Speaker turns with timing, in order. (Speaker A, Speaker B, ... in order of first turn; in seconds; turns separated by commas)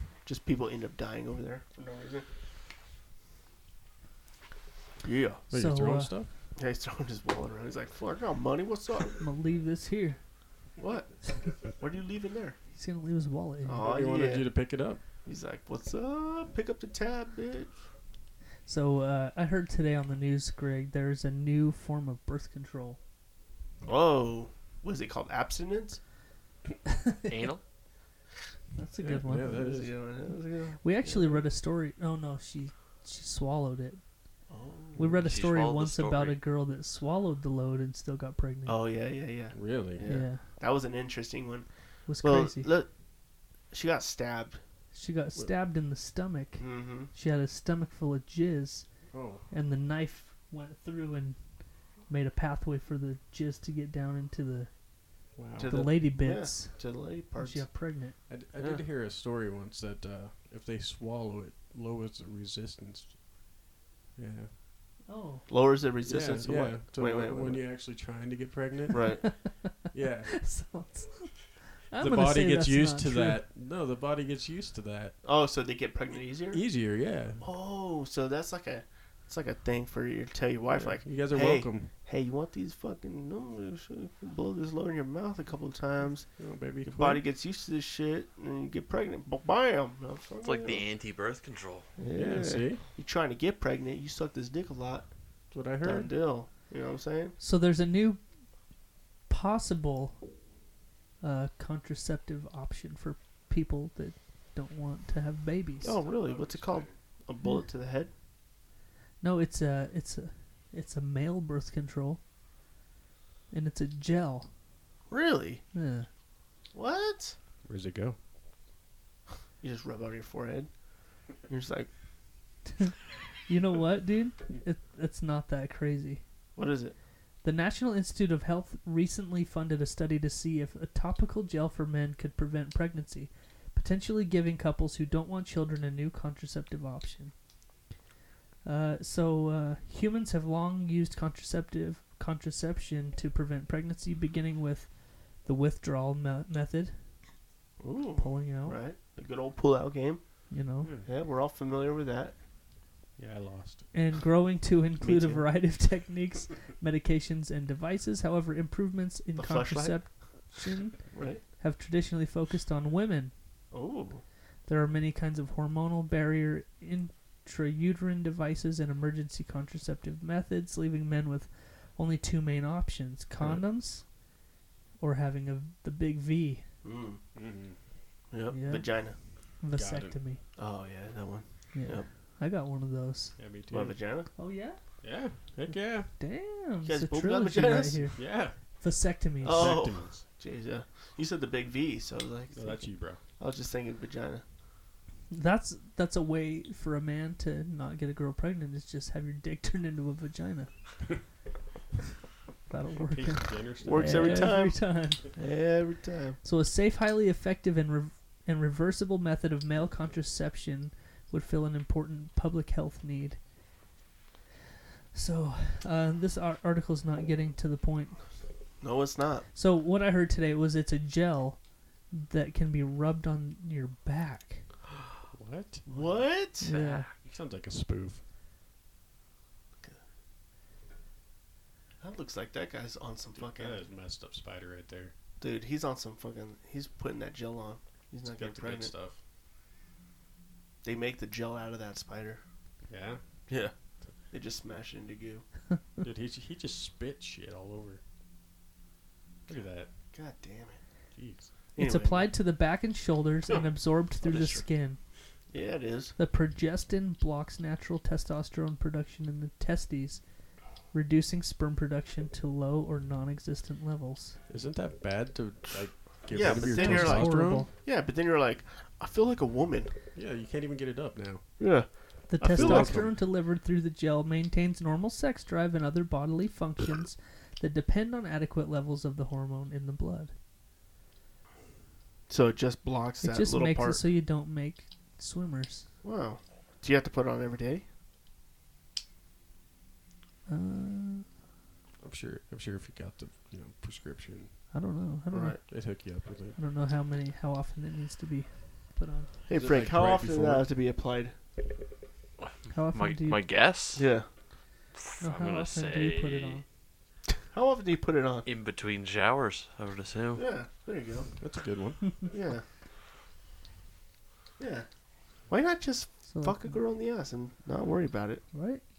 Speaker A: 0.2-2.3, Speaker A: 5.0-5.4, Speaker B: 5.5-6.3, Speaker C: 5.5-6.2, Speaker A: 6.6-9.2, Speaker C: 9.2-10.2, Speaker A: 10.8-12.6, Speaker C: 12.8-13.9, Speaker A: 13.7-14.5, Speaker B: 13.8-15.0, Speaker A: 15.2-17.8, Speaker C: 18.7-23.0, Speaker A: 23.8-26.0, Speaker C: 26.9-27.5, Speaker D: 27.3-27.6, Speaker C: 28.8-29.7, Speaker B: 29.0-29.9, Speaker A: 29.5-31.4, Speaker C: 30.8-34.0, Speaker A: 34.5-35.2, Speaker C: 35.0-38.9, Speaker D: 35.2-36.4, Speaker A: 38.7-41.7, Speaker B: 39.5-40.1, Speaker C: 40.0-40.4, Speaker C: 42.1-42.7, Speaker A: 42.2-42.9, Speaker A: 43.7-44.6, Speaker C: 44.9-48.9, Speaker A: 46.6-47.1, Speaker B: 49.1-49.5, Speaker C: 49.5-51.4, Speaker C: 52.1-54.7, Speaker B: 55.4-55.9, Speaker A: 55.6-57.7, Speaker C: 55.6-58.2, Speaker B: 58.3-63.2, Speaker A: 58.6-58.8, Speaker B: 64.2-64.5, Speaker C: 65.1-65.5, Speaker A: 65.5-67.7, Speaker B: 66.1-69.4, Speaker A: 68.9-69.3, Speaker C: 69.2-69.7, Speaker B: 69.9-70.4, Speaker C: 70.3-73.4, Speaker B: 72.0-75.2, Speaker A: 75.2-76.6, Speaker B: 76.5-77.5, Speaker A: 77.4-86.3, Speaker B: 80.7-81.9, Speaker B: 86.4-87.2, Speaker A: 86.8-90.9, Speaker D: 90.4-91.9, Speaker A: 92.0-95.1, Speaker B: 92.1-92.8, Speaker B: 95.5-96.1, Speaker A: 95.7-97.3, Speaker C: 97.4-98.2, Speaker C: 99.3-100.2, Speaker C: 101.2-106.0, Speaker A: 105.8-108.1, Speaker B: 105.9-107.0, Speaker C: 107.4-107.7, Speaker C: 109.2-112.2, Speaker C: 113.5-114.5, Speaker A: 115.1-115.6, Speaker C: 115.7-116.1, Speaker A: 116.7-117.4, Speaker B: 117.7-118.2, Speaker A: 119.6-120.7, Speaker A: 121.4-121.9, Speaker C: 123.5-126.2, Speaker A: 126.6-127.0, Speaker C: 127.4-137.3, Speaker C: 138.6-147.0, Speaker A: 147.8-150.4, Speaker C: 148.2-148.8, Speaker C: 150.5-150.9, Speaker B: 150.8-151.1, Speaker A: 151.1-152.4, Speaker B: 153.2-153.9, Speaker C: 153.9-163.3, Speaker A: 155.0-155.4, Speaker A: 159.3-160.1, Speaker A: 161.1-161.4, Speaker A: 163.7-164.2, Speaker C: 164.7-174.1, Speaker C: 175.0-176.6, Speaker A: 176.8-177.2, Speaker B: 177.3-177.8, Speaker A: 178.3-179.2, Speaker C: 178.5-178.9, Speaker C: 179.6-180.4, Speaker B: 179.7-180.2, Speaker A: 180.6-182.1, Speaker C: 181.7-183.4, Speaker B: 183.4-184.0, Speaker A: 183.7-184.3, Speaker C: 184.4-184.8, Speaker B: 185.0-186.1, Speaker C: 185.7-189.8, Speaker A: 186.8-188.2, Speaker B: 188.2-188.6, Speaker B: 189.4-190.2, Speaker A: 189.4-194.4, Speaker B: 192.5-193.2, Speaker C: 195.3-200.7, Speaker C: 202.7-205.2, Speaker B: 203.0-204.6, Speaker A: 203.8-206.4, Speaker C: 206.4-213.4, Speaker C: 215.1-218.2, Speaker A: 218.8-219.5, Speaker C: 219.5-224.7, Speaker B: 225.3-226.3, Speaker A: 225.9-226.7, Speaker C: 226.6-227.1, Speaker D: 226.6-227.2, Speaker B: 227.2-228.2, Speaker A: 232.0-233.8, Speaker B: 233.3-235.1, Speaker A: 235.4-238.9, Speaker B: 238.2-239.2, Speaker A: 240.8-242.4, Speaker B: 242.9-243.2, Speaker A: 243.5-243.7, Speaker A: 244.3-245.5, Speaker B: 246.0-248.0, Speaker B: 249.5-249.9, Speaker A: 250.1-250.8, Speaker B: 251.2-251.5, Speaker A: 251.8-252.3, Speaker C: 251.8-255.0, Speaker A: 254.2-254.6, Speaker A: 255.5-256.1, Speaker C: 256.2-260.2, Speaker C: 260.9-264.4, Speaker B: 264.5-267.7, Speaker A: 266.3-269.9, Speaker C: 266.5-267.7, Speaker B: 270.1-271.5, Speaker A: 271.6-273.1, Speaker C: 272.3-280.3, Speaker B: 272.5-273.1, Speaker A: 282.3-284.0, Speaker C: 283.2-285.9, Speaker A: 286.0-287.9, Speaker C: 290.5-291.3, Speaker B: 292.0-294.6, Speaker C: 294.7-295.9, Speaker A: 295.3-295.6, Speaker B: 295.6-296.6, Speaker C: 296.6-299.3, Speaker A: 299.5-301.4, Speaker B: 299.5-300.7, Speaker C: 302.7-303.4, Speaker D: 302.9-304.1, Speaker A: 303.9-304.3, Speaker D: 305.0-306.6, Speaker C: 305.2-306.6, Speaker A: 307.5-308.5, Speaker D: 308.4-310.4, Speaker A: 310.4-311.3, Speaker B: 311.4-312.2, Speaker A: 312.3-312.6, Speaker A: 314.6-314.9, Speaker A: 315.5-318.5, Speaker C: 316.3-316.8, Speaker C: 318.5-318.8